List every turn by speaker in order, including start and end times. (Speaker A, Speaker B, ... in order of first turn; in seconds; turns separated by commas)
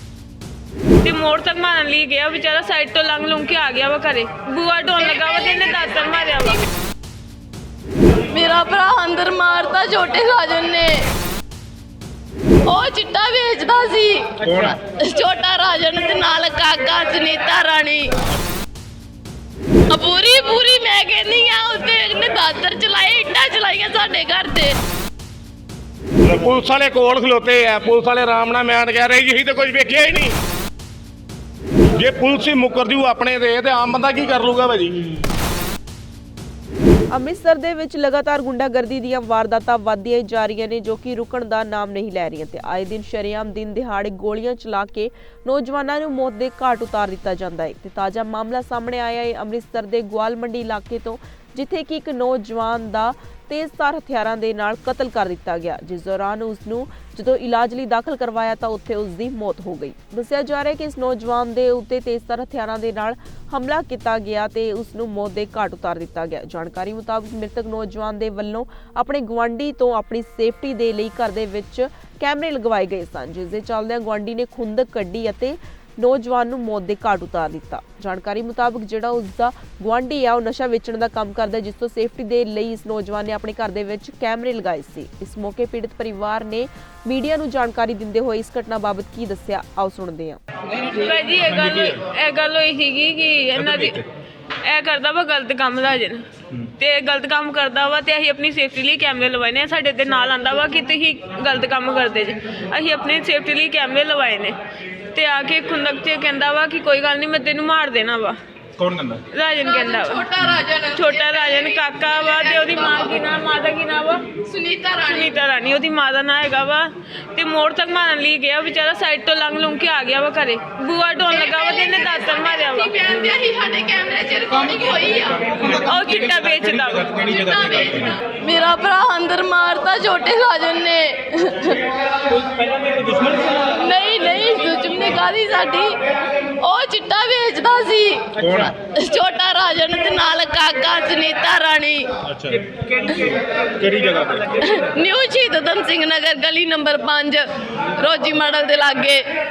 Speaker A: 1.0-6.7, Speaker B: 8.3-11.1, Speaker B: 12.7-18.1, Speaker C: 14.4-14.8, Speaker B: 19.9-24.8, Speaker D: 26.2-30.3, Speaker D: 32.0-35.0, Speaker E: 37.1-90.4, Speaker A: 90.8-94.0, Speaker C: 91.6-92.0, Speaker C: 93.5-94.0, Speaker A: 94.6-96.2, Speaker A: 96.8-104.5, Speaker A: 105.1-108.4, Speaker C: 108.8-109.2, Speaker A: 109.3-110.2, Speaker B: 109.6-113.0, Speaker A: 110.9-114.2, Speaker B: 114.4-115.3, Speaker A: 115.0-122.9, Speaker B: 121.3-125.7, Speaker C: 125.7-128.1, Speaker A: 125.8-127.2, Speaker B: 127.2-131.8, Speaker B: 133.4-136.0, Speaker B: 136.6-138.4, Speaker C: 138.4-138.7, Speaker B: 138.9-142.1, Speaker C: 142.3-142.6, Speaker C: 143.8-144.5, Speaker B: 144.6-147.4, Speaker B: 148.0-149.2